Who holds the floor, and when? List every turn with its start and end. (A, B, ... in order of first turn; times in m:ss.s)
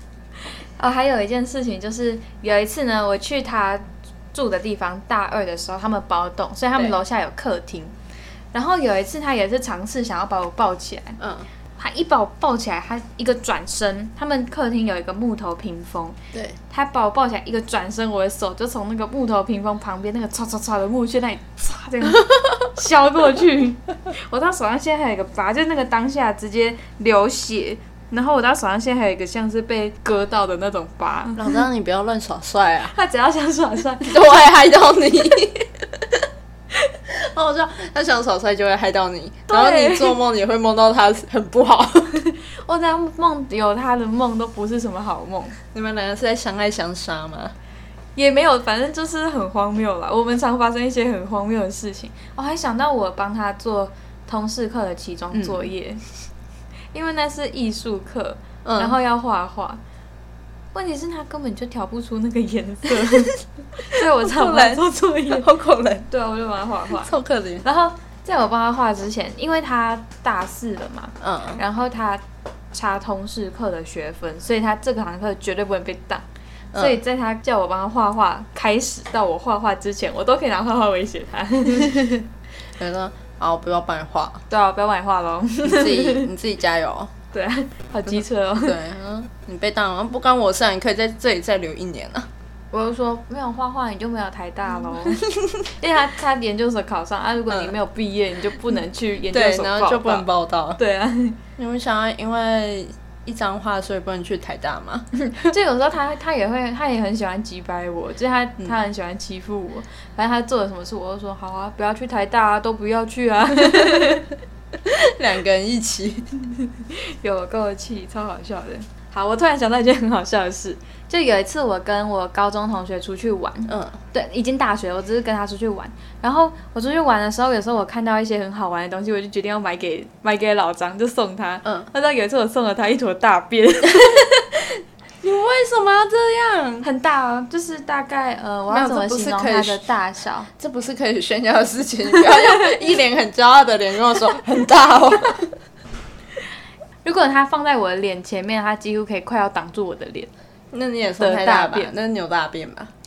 0:00.8-0:07.9 A
0:08.5-0:11.2 A
0:11.2-0:11.5 B
0:11.8-0:16.2 A
0:16.3-0:16.6 B
0:16.7-0:31.6 A
0:31.4-0:32.9 B
0:32.9-0:34.2 A
0:34.0-0:36.3 B
0:37.1-0:42.2 B
0:39.5-0:40.2 A
0:42.3-0:45.6 A
0:45.7-0:47.5 B
0:48.2-0:56.0 A
0:55.3-0:55.7 B
0:56.9-0:59.8 A
0:58.6-0:59.0 B
1:00.7-1:05.5 A
1:03.9-1:06.1 B
1:06.1-1:07.1 A
1:07.0-1:07.6 B
1:07.6-1:16.2 A
1:11.2-1:11.6 B
1:16.7-1:17.0 B
1:16.8-1:22.2 A
1:22.8-1:24.4 B
1:24.5-1:26.3 A
1:25.6-1:27.1 B
1:27.3-1:28.8 A
1:28.6-1:32.3 B
1:32.7-1:40.2 A
1:35.1-1:35.6 B
1:39.3-1:40.8 B
1:40.8-1:41.4 A
1:41.6-1:45.1 B
1:45.2-1:54.3 A
1:54.8-1:56.3 B
1:56.9-2:14.4 A
2:03.7-2:04.0 B
2:15.2-2:16.8 B
2:16.8-2:20.5 A
2:18.7-2:19.8 B
2:20.6-2:25.5 B
2:27.0-2:30.3 A
2:30.7-2:32.9 B
2:31.2-2:31.9 A